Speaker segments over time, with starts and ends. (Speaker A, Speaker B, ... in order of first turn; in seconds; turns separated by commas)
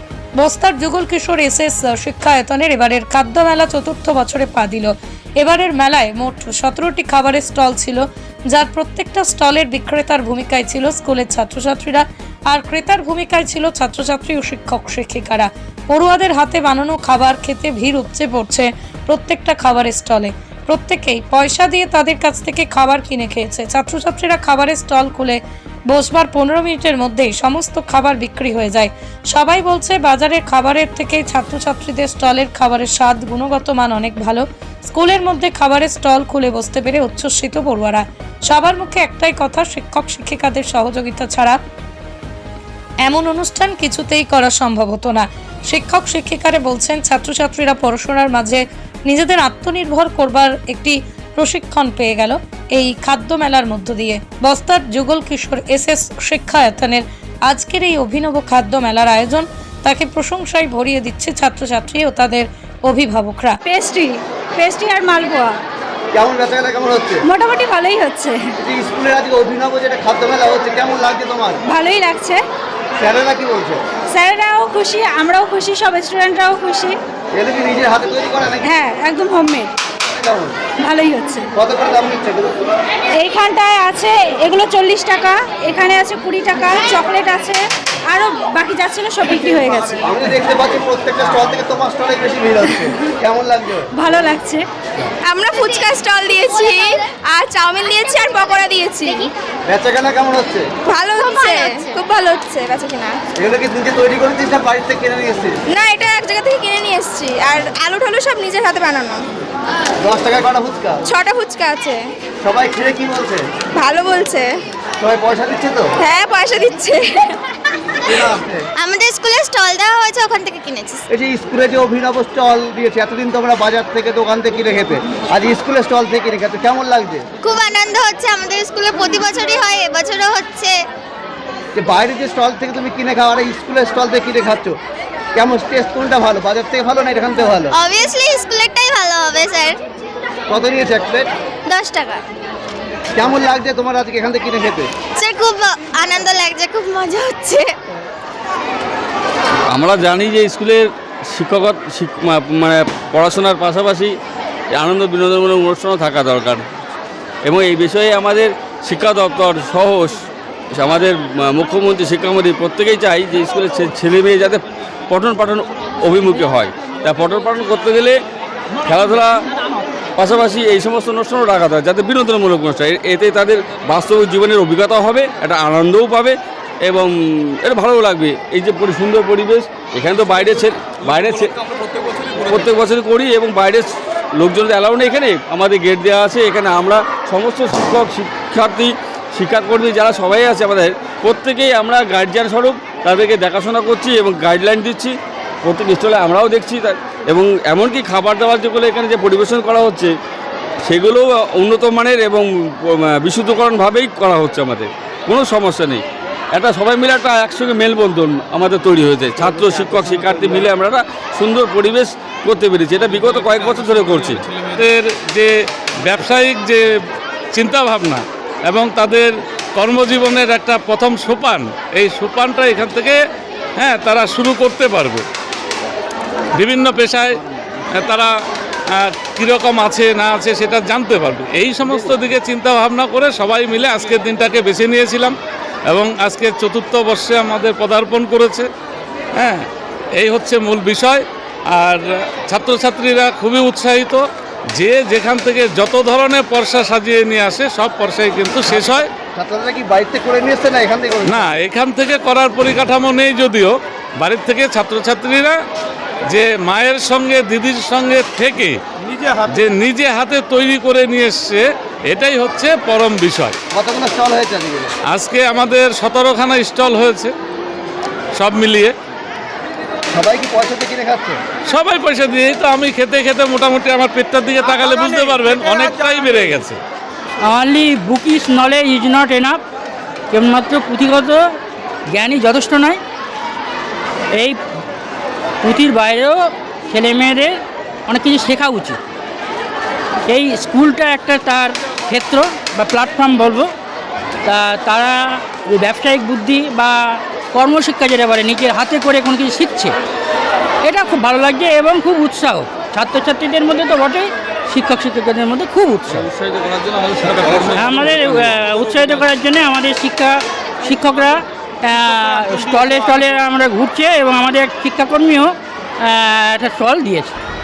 Speaker A: 0.4-41.6, Speaker A: 43.0-63.6, Speaker B: 63.7-65.5, Speaker C: 66.1-67.2, Speaker B: 67.3-68.5, Speaker C: 68.6-71.6, Speaker B: 71.7-72.4, Speaker C: 73.0-73.8, Speaker B: 74.1-76.9, Speaker C: 77.3-78.7, Speaker B: 78.7-79.7, Speaker C: 80.1-80.6, Speaker B: 80.8-81.5, Speaker C: 81.5-82.6, Speaker B: 83.2-89.9, Speaker C: 89.8-93.9, Speaker B: 94.0-94.6, Speaker D: 95.3-96.8, Speaker D: 97.3-99.1, Speaker C: 99.7-100.7, Speaker D: 100.9-101.3, Speaker E: 101.2-102.0, Speaker D: 102.1-103.1, Speaker C: 103.4-105.6, Speaker D: 105.8-109.2, Speaker C: 110.0-111.0, Speaker D: 111.2-111.9, Speaker C: 112.4-113.5, Speaker D: 113.8-114.5, Speaker C: 115.0-115.9, Speaker D: 116.1-117.0, Speaker C: 118.0-118.7, Speaker E: 118.8-121.0, Speaker C: 121.1-127.3, Speaker E: 127.4-130.8, Speaker C: 131.7-134.8, Speaker C: 135.3-137.8, Speaker E: 137.7-139.8, Speaker C: 140.5-141.3, Speaker E: 141.7-142.2, Speaker C: 143.1-144.9, Speaker E: 145.2-147.7, Speaker F: 149.7-154.2, Speaker F: 154.7-156.6, Speaker F: 157.4-168.2, Speaker F: 168.8-169.4, Speaker F: 170.2-181.5, Speaker F: 182.4-200.1, Speaker F: 200.8-214.4, Speaker G: 214.8-215.5, Speaker G: 216.0-216.9, Speaker G: 217.5-223.2, Speaker G: 223.8-225.2, Speaker G: 226.5-227.4, Speaker G: 227.9-228.3, Speaker G: 228.9-235.3, Speaker G: 235.9-238.7, Speaker G: 239.3-249.1, Speaker C: 249.3-251.5, Speaker G: 251.3-255.6, Speaker G: 256.3-258.8, Speaker G: 259.5-263.6, Speaker C: 263.7-264.9, Speaker G: 265.1-267.3, Speaker G: 268.4-268.9, Speaker C: 270.1-271.4, Speaker G: 271.7-276.8, Speaker H: 277.4-279.6, Speaker H: 280.3-281.5, Speaker H: 282.1-283.0, Speaker H: 284.3-284.6, Speaker H: 285.6-287.6, Speaker H: 288.1-289.0, Speaker H: 290.3-293.7, Speaker H: 294.4-299.9, Speaker H: 300.8-306.3, Speaker F: 306.1-308.4, Speaker H: 307.7-317.4